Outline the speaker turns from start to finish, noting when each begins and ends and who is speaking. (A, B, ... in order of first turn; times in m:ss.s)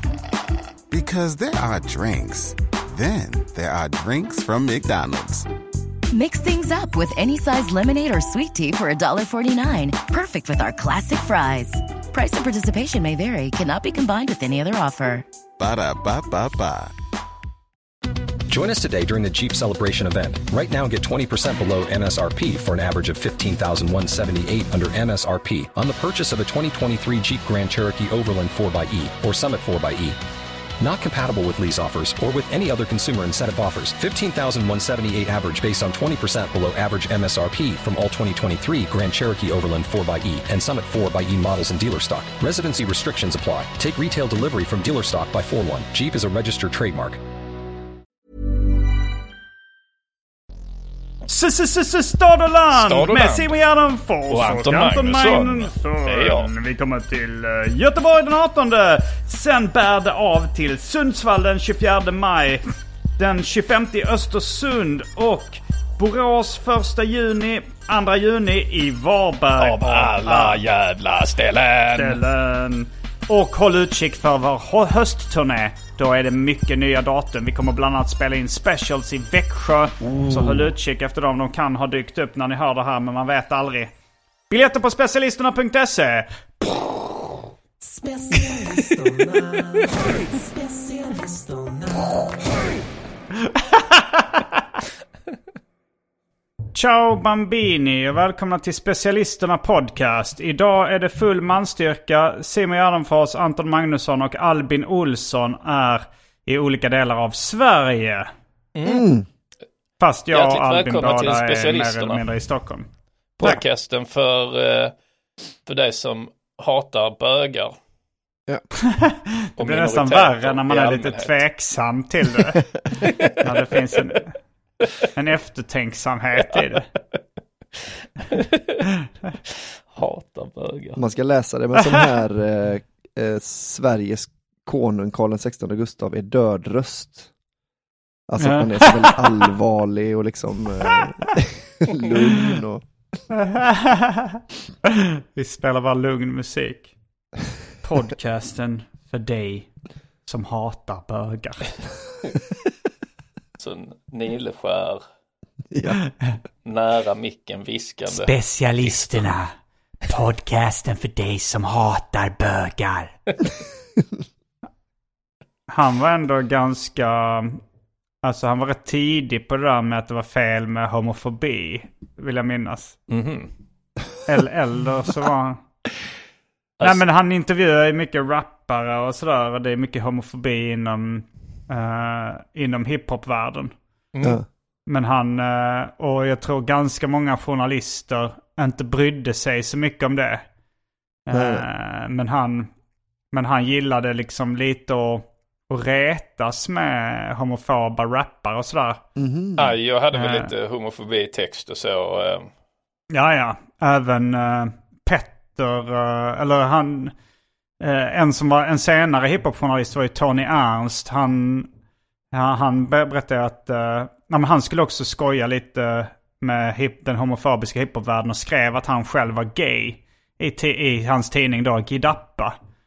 0:00.9-0:05.5 A
0:06.1-0:15.2 B
0:15.6-0:17.0 A
0:18.5-0:30.2 C
0:30.8-0:47.2 C
0:51.3-1:02.6 D
0:52.7-0:53.6 E
0:54.3-0:56.5 E
1:03.2-1:10.6 D
1:09.6-1:12.2 E
1:12.0-1:23.9 D
1:24.5-1:26.3 D
1:28.0-1:28.4 D
1:28.4-1:29.1 E
1:33.7-1:34.5 D
1:36.7-1:48.3 D
1:48.8-1:49.1 E
1:48.8-1:49.3 F
1:50.0-1:52.9 D
1:50.3-1:52.2 E
1:53.4-1:54.9 E
1:55.7-1:57.8 E
1:58.8-2:02.6 D
1:59.6-2:01.4 E
2:03.1-2:03.4 E
2:03.4-2:04.4 D
2:05.1-2:06.9 D
2:07.8-2:08.8 E
2:09.5-2:11.0 E
2:11.0-2:17.3 F
2:18.3-2:22.8 F
2:18.4-2:19.4 D
2:22.1-2:22.6 D
2:23.3-2:26.9 D
2:27.8-2:29.7 D
2:30.3-2:31.7 D
2:33.6-2:35.0 E
2:35.7-2:36.0 F
2:36.6-2:39.3 E
2:38.1-2:39.5 D
2:40.1-2:43.1 D
2:45.7-2:47.6 D
2:48.2-2:53.0 D
2:53.1-2:53.5 E
2:54.3-2:55.6 D
2:56.8-3:03.7 D
3:04.1-3:04.4 E
3:04.9-3:10.5 D
3:11.3-3:12.7 D
3:11.3-3:11.7 F
3:13.3-3:19.0 D
3:19.2-3:19.8 F
3:19.6-3:22.5 E
3:20.1-3:20.5 D
3:23.1-3:27.1 D
3:27.8-3:31.7 D
3:32.3-3:42.6 D